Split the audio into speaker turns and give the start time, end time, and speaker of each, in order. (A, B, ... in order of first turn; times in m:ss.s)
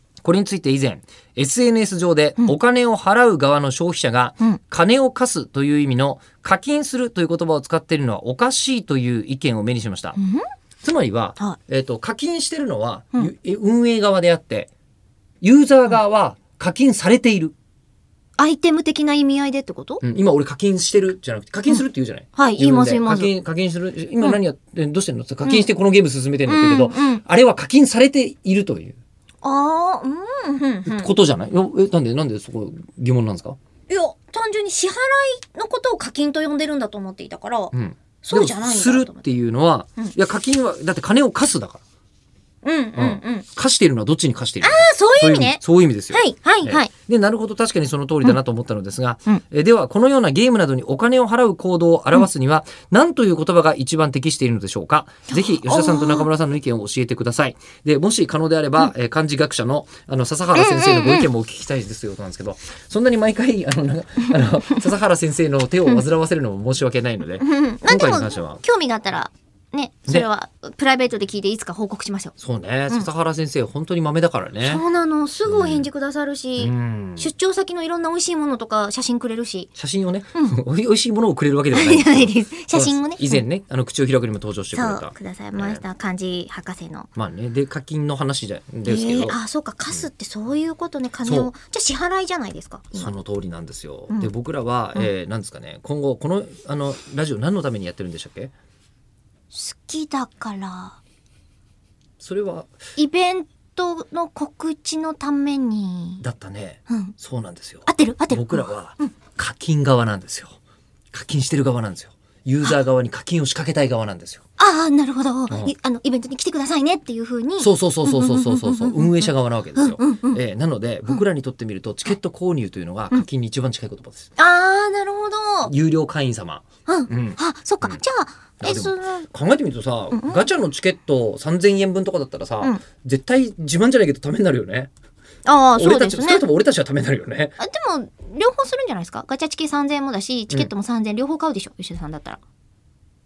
0:00.2-0:10.2 A
0:10.2-0:10.4 B
0:10.8-0:14.7 A
0:15.4-0:17.5 A
0:18.4-0:20.0 B
0:20.0-0:29.0 A
0:22.4-0:23.3 B
0:26.4-0:27.2 B
0:29.4-0:31.1 B
0:30.8-0:33.6 A
0:33.9-0:39.2 B
0:37.7-0:41.8 A
0:42.6-0:43.4 B
0:43.0-1:08.6 A
0:44.6-0:46.9 B
0:55.3-0:56.3 B
1:00.5-1:01.3 B
1:07.4-1:12.3 B
1:12.4-1:14.8 A
1:14.6-1:19.7 B
1:15.5-1:15.9 A
1:16.6-1:17.3 A
1:19.8-1:25.8 A
1:21.7-1:23.4 B
1:24.7-1:27.1 B
1:27.2-1:29.4 A
1:28.8-1:33.1 B
1:31.2-1:31.5 A
1:33.0-1:38.5 A
1:39.5-1:41.0 B
1:42.2-1:42.7 A
1:43.0-1:46.2 B
1:46.2-1:50.6 A
1:46.9-1:47.1 B
1:47.9-1:49.1 B
1:51.1-1:54.4 A
1:54.6-2:00.4 B
1:57.6-2:04.3 A
2:04.4-2:05.7 B
2:05.6-2:08.0 A
2:06.8-2:09.3 B
2:08.6-2:14.9 A
2:10.1-2:10.5 B
2:15.4-2:16.4 B
2:15.7-2:17.5 A
2:17.6-2:22.4 B